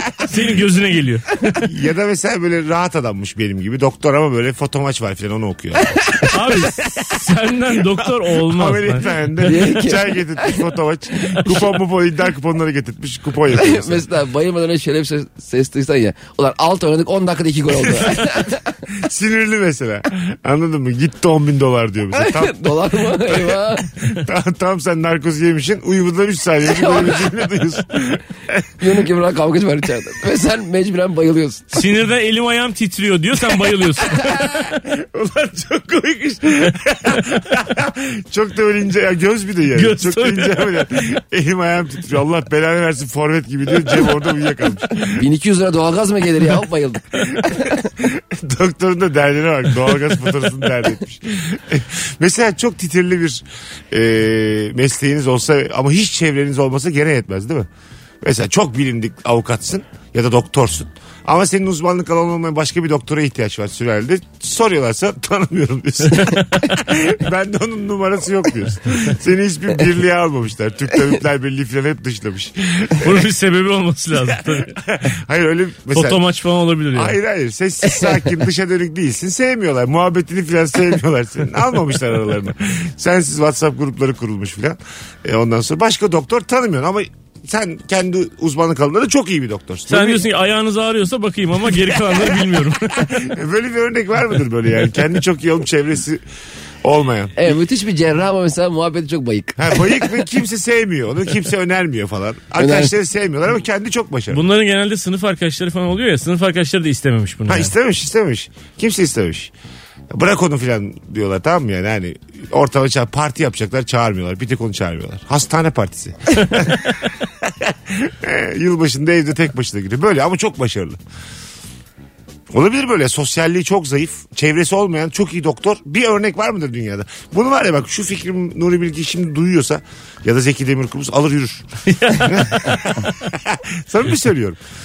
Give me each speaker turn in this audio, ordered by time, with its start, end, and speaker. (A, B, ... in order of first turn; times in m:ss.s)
0:00.2-0:01.6 A
0:01.6-0:07.2 B
0:05.9-0:06.4 C
0:06.2-0:09.6 A
0:07.7-0:14.1 B
0:09.4-0:10.6 C
0:13.5-0:18.8 C
0:17.9-0:28.9 B
0:22.1-0:24.0 C
0:26.7-0:27.3 C
0:28.8-0:31.8 C
0:31.7-0:34.8 A
0:34.0-0:45.3 B
0:39.8-0:40.9 A
0:45.1-0:47.9 C
0:47.2-0:57.7 B
0:58.2-1:13.3 B
1:13.0-1:14.8 A
1:14.3-1:16.2 B
1:15.9-1:17.2 A
1:16.9-1:30.2 B
1:29.9-1:33.2 A
1:31.8-1:36.2 B
1:36.8-1:37.5 B
1:37.4-1:40.2 C
1:39.6-1:44.4 B
1:42.6-1:42.9 C
1:44.3-1:47.7 A
1:47.5-1:49.5 B
1:50.1-2:01.0 B
2:02.5-2:14.6 B
2:11.9-2:12.9 A